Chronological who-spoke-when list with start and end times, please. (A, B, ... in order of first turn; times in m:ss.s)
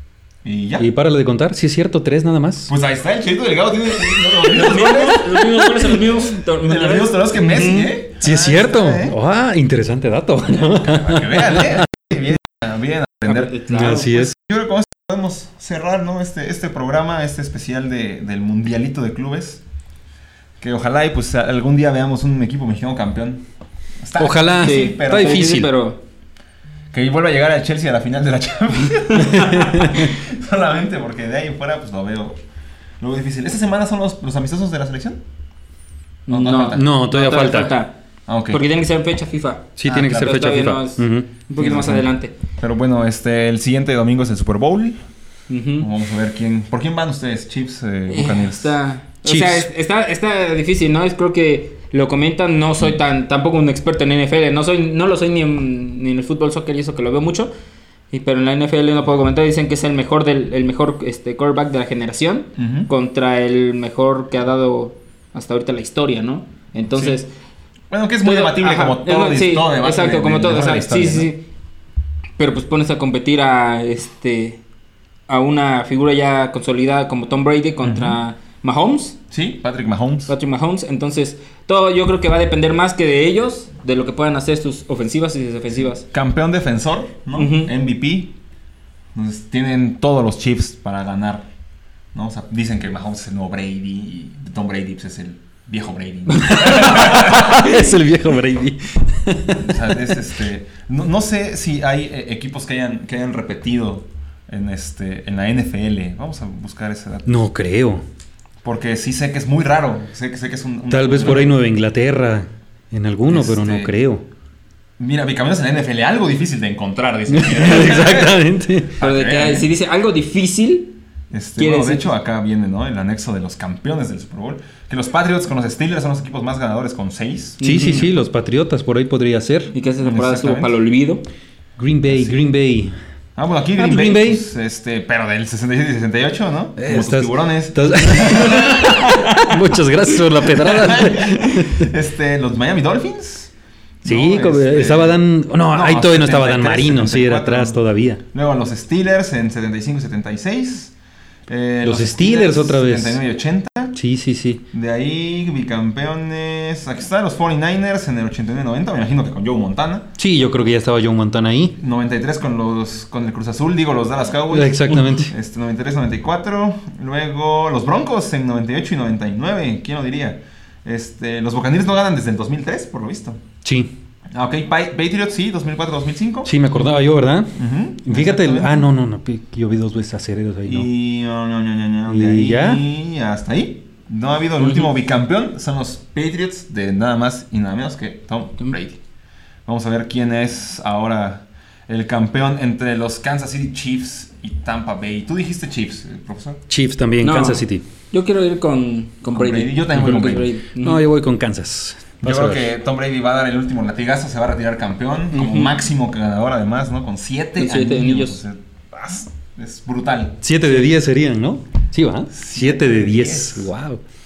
0:00.4-0:00.9 A
0:00.8-0:02.7 B
0:02.7-0:05.4 A
0:04.4-0:07.9 C
0:06.6-0:09.2 A
0:08.2-0:11.9 B
0:10.5-0:19.6 A
0:13.2-0:14.1 C
0:13.7-0:14.3 B
0:20.6-0:23.4 A
0:24.0-0:25.6 A
0:24.2-0:25.7 B
0:24.6-0:26.0 C
0:26.9-0:32.4 A
0:29.1-0:29.5 C
0:29.3-0:30.1 B
0:33.0-0:35.2 A
0:36.3-0:36.9 A
0:36.3-0:37.9 C
0:36.7-0:37.7 B
0:38.3-0:38.6 A
0:38.5-0:42.3 C
0:39.8-0:41.3 B
0:39.9-0:40.3 A
0:41.6-0:42.0 A
0:42.6-0:45.0 A
0:45.5-0:45.9 C
0:45.8-0:48.8 A
0:48.1-0:57.5 C
0:49.2-0:49.7 B
0:58.1-1:07.3 C
1:02.6-1:02.9 A
1:06.9-1:07.2 A
1:07.9-1:11.3 A
1:08.2-1:11.4 C
1:12.4-1:14.6 C
1:15.3-1:19.2 C
1:17.8-1:18.2 A
1:19.3-1:20.3 A
1:20.3-1:26.0 C
1:26.1-1:28.3 A
1:27.3-1:27.7 C
1:29.1-1:31.4 A
1:32.1-1:37.8 A
1:36.3-1:37.8 C
1:36.4-1:40.2 B
1:39.5-1:47.4 A
1:47.2-1:48.0 B
1:48.6-1:51.6 A
1:50.9-1:54.2 B
1:53.3-1:53.9 A
1:55.0-1:59.7 A
1:57.3-1:58.9 B
1:59.0-2:00.9 C
2:01.3-2:08.1 A
2:01.6-2:02.1 C
2:07.6-2:08.1 C
2:07.6-2:09.7 B
2:09.7-2:11.2 C
2:10.0-2:10.8 A
2:11.8-2:12.9 B
2:12.0-2:12.4 A
2:13.4-2:19.2 A
2:13.8-2:14.4 B
2:16.8-2:21.9 B
2:20.5-2:23.5 A
2:24.0-2:27.8 A
2:24.0-2:28.2 B
2:28.3-2:30.9 A
2:31.5-2:34.0 A
2:31.8-2:33.2 B
2:33.9-2:34.6 B
2:34.7-2:40.1 A
2:40.2-2:41.8 B
2:41.8-2:53.4 A
2:44.5-2:45.3 B
2:53.6-2:53.9 B
2:54.3-2:56.5 A
2:56.4-3:00.9 B
2:57.6-2:58.9 A
3:00.6-3:09.0 A
3:02.1-3:02.8 B
3:04.6-3:04.9 C
3:09.6-3:16.6 A
3:16.7-3:17.8 B
3:17.2-3:21.0 C
3:19.3-3:20.5 A
3:20.0-3:22.6 B
3:22.2-3:30.4 A
3:25.3-3:25.8 C
3:27.6-3:28.4 C
3:30.4-3:34.0 B
3:32.3-3:33.7 A